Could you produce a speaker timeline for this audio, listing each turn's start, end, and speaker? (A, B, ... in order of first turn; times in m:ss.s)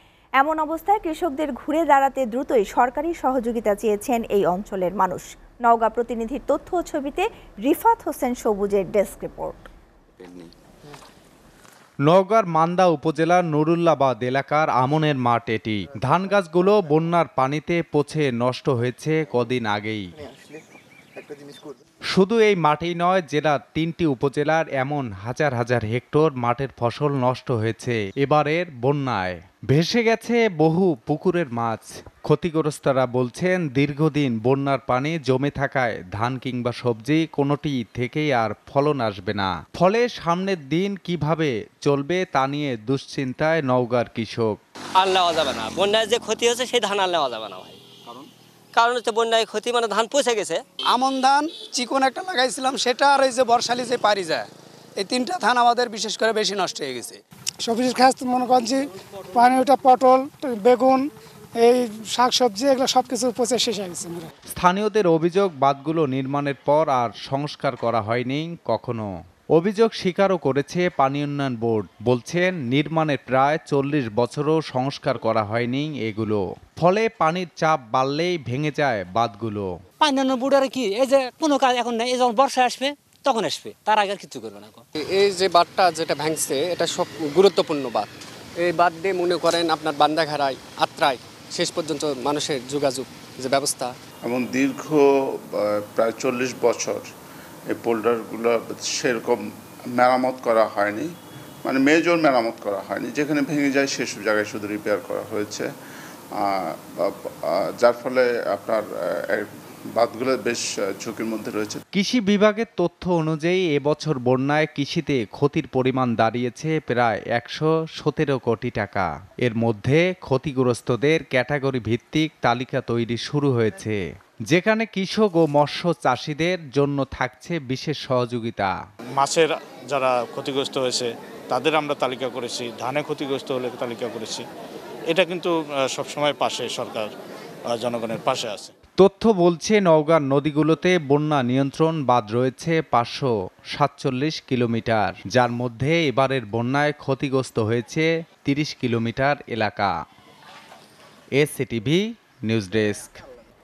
0:00.4-0:09.6 A
0:12.1-0:20.1 B
0:22.1-0:44.6 B
0:45.0-0:50.6 C
0:50.9-0:57.2 D
0:57.6-1:01.0 E
1:01.6-1:04.3 E
1:04.5-1:19.7 B
1:20.0-1:24.8 F
1:25.0-1:33.9 G
1:34.2-1:37.1 H
1:37.7-1:41.1 H
1:41.6-1:45.7 H
1:46.4-1:51.8 H
1:51.9-2:08.7 B
2:09.2-2:14.4 I
2:15.1-2:17.1 I
2:17.7-2:18.7 I
2:19.0-2:29.9 B
2:31.4-2:33.2 B